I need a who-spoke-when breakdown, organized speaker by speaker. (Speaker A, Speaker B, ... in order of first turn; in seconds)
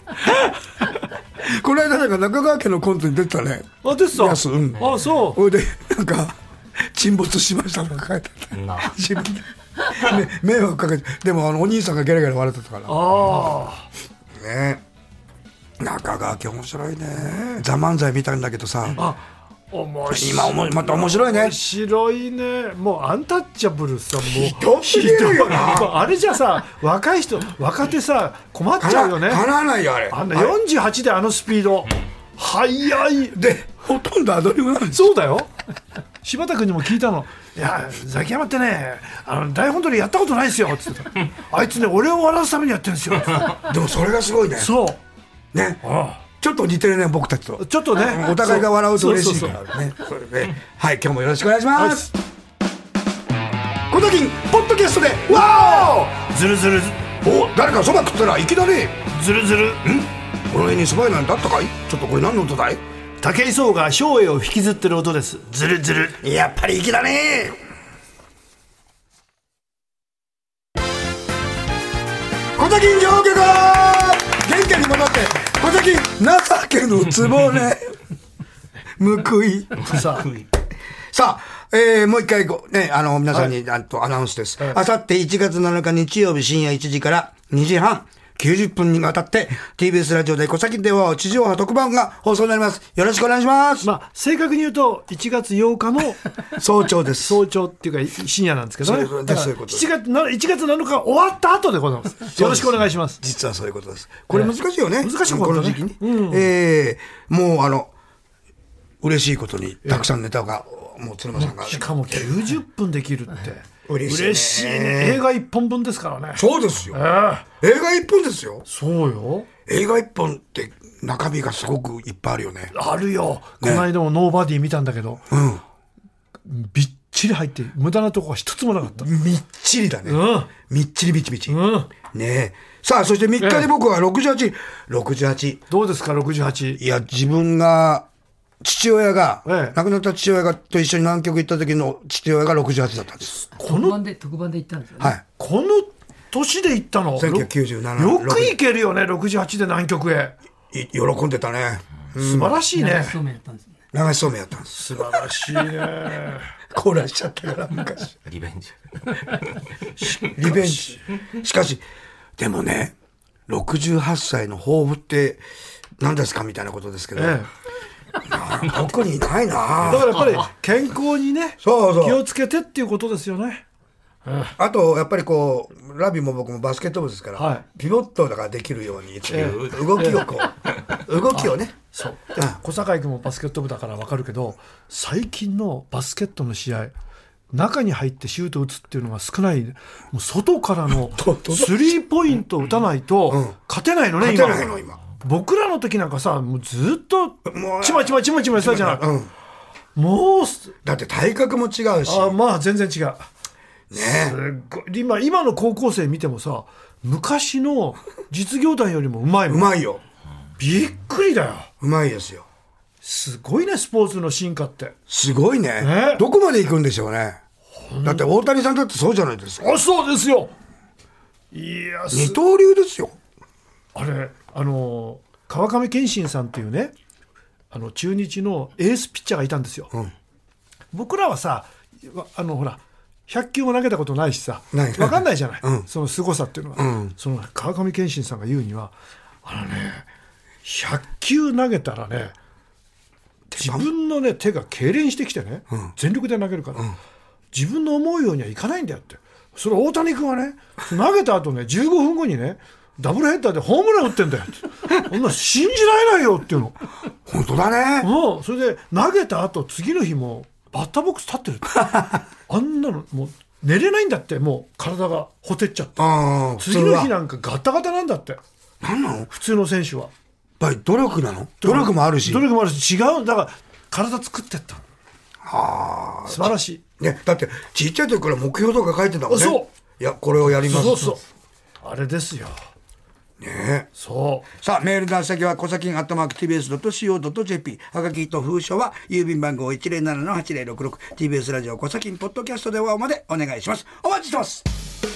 Speaker A: 1.4-13.1, 14.4-14.8, 15.8-19.0, 20.1-21.6, 24.2-26.0, 28.8-30.6, 33.3-35.1, 43.6-44.7, 45.5-52.1, 53.9-56.0, 57.2-59.0, 59.8-62.8, 66.2-67.6, 72.5-78.0, 79.0-80.2, 81.1-93.9, 96.6-97.4, 98.8-99.9, 102.3-107.9, 109.0-112.3, 113.9-115.2, 116.3-117.0, 117.6-118.6, 119.7-122.7, 123.6-123.9, 125.3-125.6, 129.0-135.6, 136.8-138.1, 138.6-143.5, 147.2-148.6, 150.7-152.6, 153.9-155.5, 156.7-158.2, 160.3-161.8, 162.4-162.9, 163.5-165.4, 166.0-167.4, 168.2-170.4, 171.6-172.2, 174.6-181.7, 191.1-191.9, 193.3-193.5, 194.2-195.0, 197.4-199.3, 200.8-202.3, 203.9-204.4, 209.5-210.0, 211.8-212.4, 215.1-217.4, 218.0-219.7, 222.1-223.2, 234.7-235.9, 236.8-237.1, 243.5-243.9, 257.2-258.1, 261.7-262.2, 266.0-267.1, 268.8-269.3, 270.6-272.5, 275.4-281.1, 283.4-283.9, 284.5-294.7
Speaker B: 3.8-5.4, 12.9-13.9, 18.9-29.4, 30.1-33.4, 34.9-35.5, 36.2-43.6, 44.6-45.0, 45.8-46.2, 47.6-49.6, 51.7-52.1, 55.3-57.1, 59.1-59.8, 63.2-66.2, 79.8-80.3, 93.8-96.2, 97.2-103.2, 104.3-106.5, 111.3-117.5, 118.7-119.5, 122.7-125.2, 126.4-129.1, 130.1-130.5, 131.5-131.9, 133.4-133.7, 135.7-136.8, 139.4-139.8, 143.6-144.0, 145.4-150.3, 152.2-153.2, 154.7-156.5, 160.0-161.0, 167.2-167.5, 169.8-173.6, 174.2-174.5, 177.4-177.6, 179.3-180.3, 181.3-186.9, 187.5-199.1, 199.9-200.7, 202.0-203.3, 204.0-209.7, 210.6-211.7, 213.0-214.9, 215.8-216.2, 217.8-218.3, 219.6-220.5, 221.5-222.4, 223.9-226.9, 227.7-229.9, 230.9-238.9, 239.4-240.1, 240.6-242.3, 243.5-246.9, 247.5-256.8, 258.0-266.0, 266.6-268.4, 269.3-270.1, 271.6-274.8, 276.3-276.8, 279.3-279.7, 280.6-281.2, 281.8-282.5, 283.9-284.5
Speaker C: 8.5-8.9, 158.2-159.6, 179.3-179.9
Speaker D: 143.6-145.2, 152.7-153.8